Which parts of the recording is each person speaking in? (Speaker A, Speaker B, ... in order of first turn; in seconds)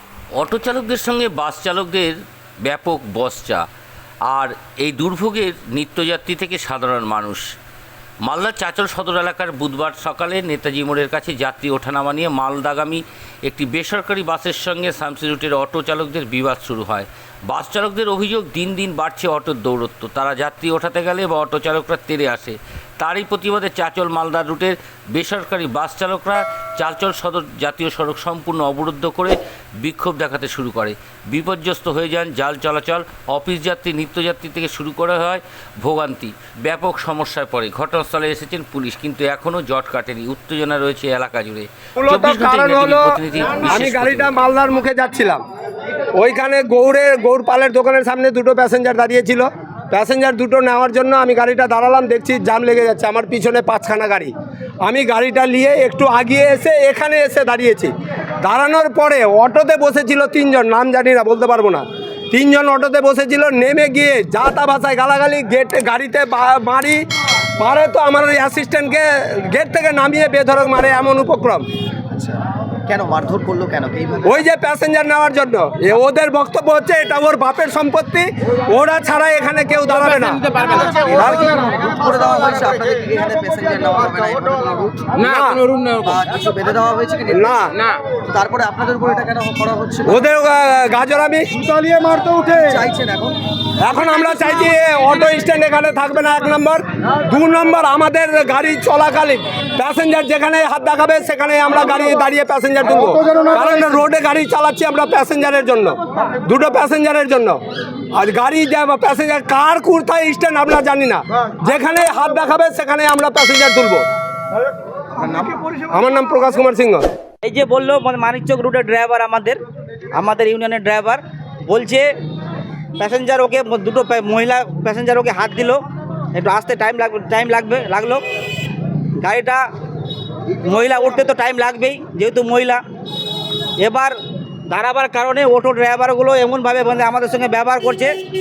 Speaker A: 0.3-3.7, 4.3-7.4, 8.2-44.4
Speaker B: 42.0-43.0, 43.6-45.4, 46.2-54.3, 54.8-57.9, 58.4-67.0, 67.6-71.7, 74.2-81.7, 85.2-85.8, 87.3-87.7, 90.1-91.7, 93.8-107.6, 108.1-114.0, 115.3-117.0
Speaker C: 72.1-74.4, 80.6-85.2, 85.9-87.5, 88.3-90.2, 91.8-93.4
Speaker D: 117.4-119.6, 120.2-122.1, 123.0-125.8, 126.3-128.2, 129.2-129.6, 130.6-132.8, 133.8-134.2, 134.7-138.1